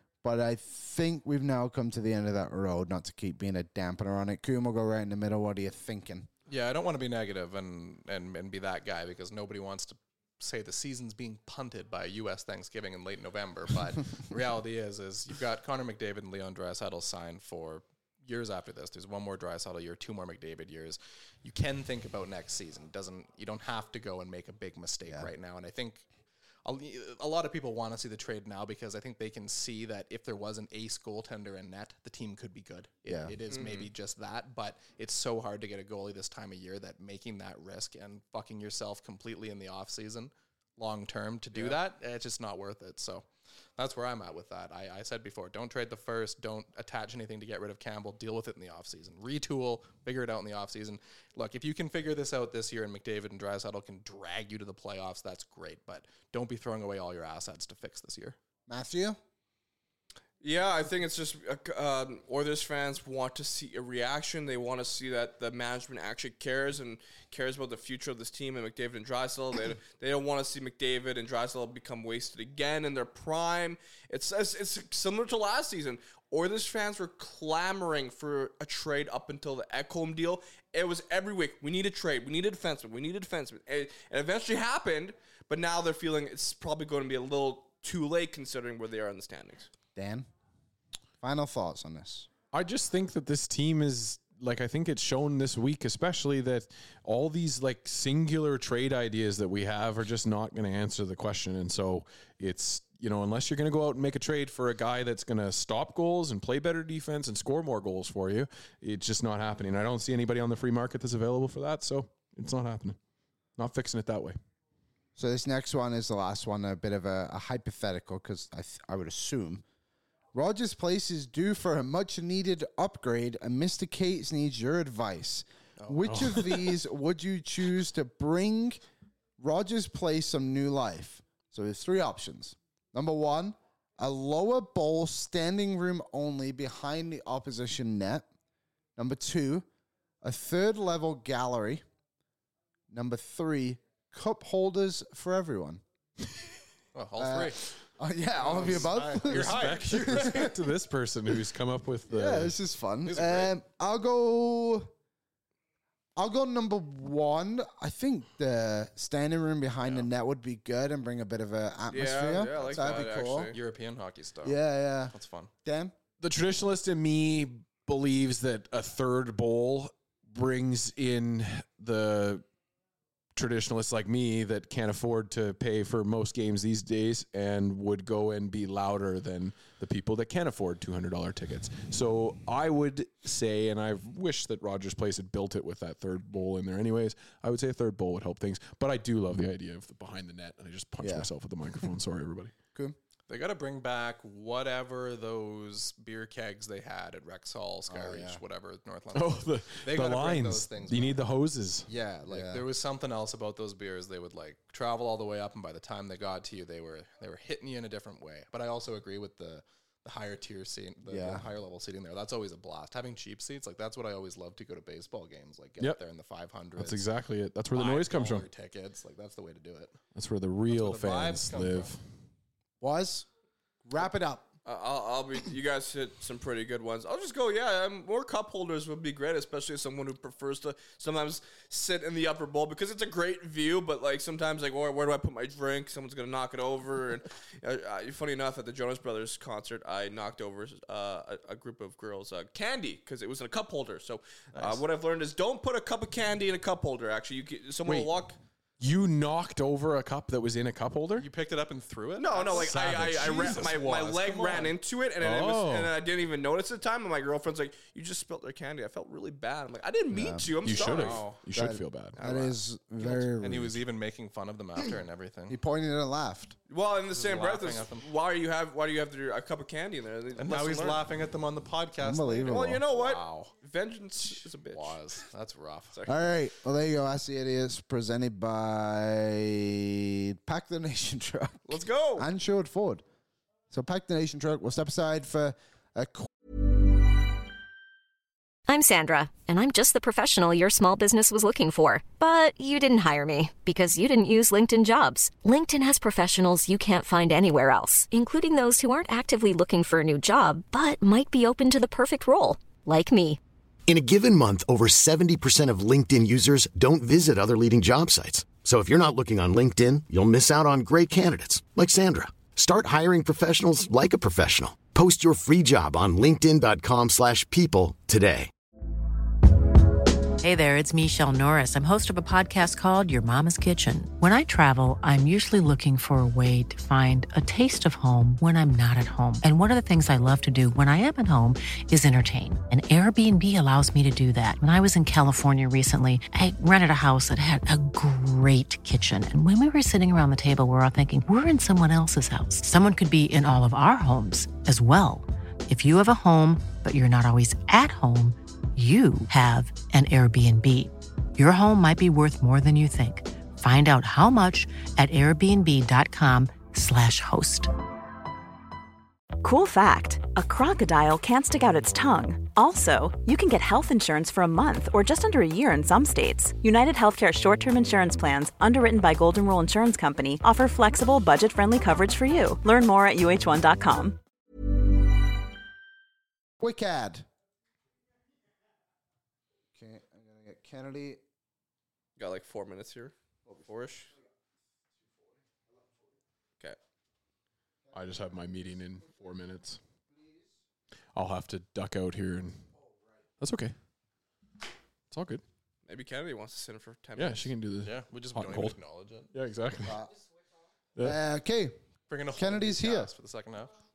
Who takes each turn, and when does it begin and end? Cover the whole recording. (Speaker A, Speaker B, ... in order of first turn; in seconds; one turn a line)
Speaker A: 0.2-6.3
Speaker B: 6.5-26.1
Speaker B: 26.6-43.3
Speaker A: 33.1-33.4
Speaker C: 33.5-33.9
Speaker B: 43.8-58.4
Speaker A: 58.7-59.2
Speaker C: 60.4-89.7
Speaker A: 90.0-90.3
Speaker A: 91.2-92.3
Speaker D: 92.5-113.0
Speaker D: 113.6-114.4
Speaker A: 115.2-119.6
Speaker A: 120.3-128.8
Speaker B: 125.8-126.2
Speaker D: 126.1-126.4
Speaker A: 129.4-138.3
Speaker A: 139.0-139.7
Speaker A: 140.2-141.8
Speaker A: 142.9-145.8
Speaker B: 146.9-147.6
Speaker A: 147.2-150.6
Speaker B: 148.4-150.5
Speaker D: 148.7-152.6
Speaker A: 152.1-154.9
Speaker B: 153.1-153.5
Speaker A: 156.2-163.5
Speaker C: 161.9-163.6
Speaker B: 162.5-164.6
Speaker A: 164.4-165.1
Speaker B: 165.1-165.5
Speaker A: 165.7-165.9
Speaker D: 166.2-172.4
Speaker D: 173.4-192.6
Speaker A: 191.0-191.3
Speaker B: 193.3-201.2
Speaker A: 197.9-198.4
Speaker D: 199.1-201.9
Speaker B: 201.9-217.1
Speaker A: 202.3-202.7
Speaker A: 211.1-211.5
Speaker D: 216.8-218.5
Speaker B: 217.7-220.0
Speaker D: 220.2-222.0
Speaker B: 220.7-221.9
Speaker A: 222.8-223.3
Speaker A: 223.9-224.5
Speaker C: 224.7-248.4
Speaker D: 247.9-248.1
Speaker D: 248.8-251.3
Speaker B: 251.2-254.7
Speaker C: 252.2-261.3
Speaker D: 252.5-253.7
Speaker D: 255.2-255.9
Speaker A: 260.1-260.5
Speaker D: 260.6-262.1
Speaker B: 260.8-261.4
Speaker A: 261.5-263.8
Speaker C: 262.2-262.6
Speaker B: 263.0-265.6
Speaker A: 265.5-266.6
Speaker C: 266.7-271.0
Speaker B: 267.1-268.1
Speaker B: 270.4-273.5
Speaker A: 272.0-272.8
Speaker C: 272.5-275.0
Speaker B: 274.2-275.9
Speaker C: 275.9-276.2
Speaker A: 276.1-283.0
Speaker C: 281.7-282.3
Speaker A: 283.7-286.3
Speaker E: 288.7-303.4
Speaker F: 303.9-318.5
Speaker G: 320.4-357.7
Speaker H: 359.4-374.2
Speaker A: 376.6-377.3
Speaker A: 379.7-381.2
Speaker C: 382.2-383.1
Speaker C: 383.7-384.1
Speaker D: 387.9-389.8
Speaker A: 390.1-390.5
Speaker D: 391.1-392.7
Speaker D: 393.4-393.8
Speaker D: 395.1-395.4
Speaker C: 395.9-397.5
Speaker D: 397.2-398.8
Speaker B: 397.8-399.3
Speaker D: 399.3-400.0
Speaker A: 399.9-400.1
Speaker A: 401.0-401.8
Speaker B: 402.1-403.7
Speaker A: 402.3-403.1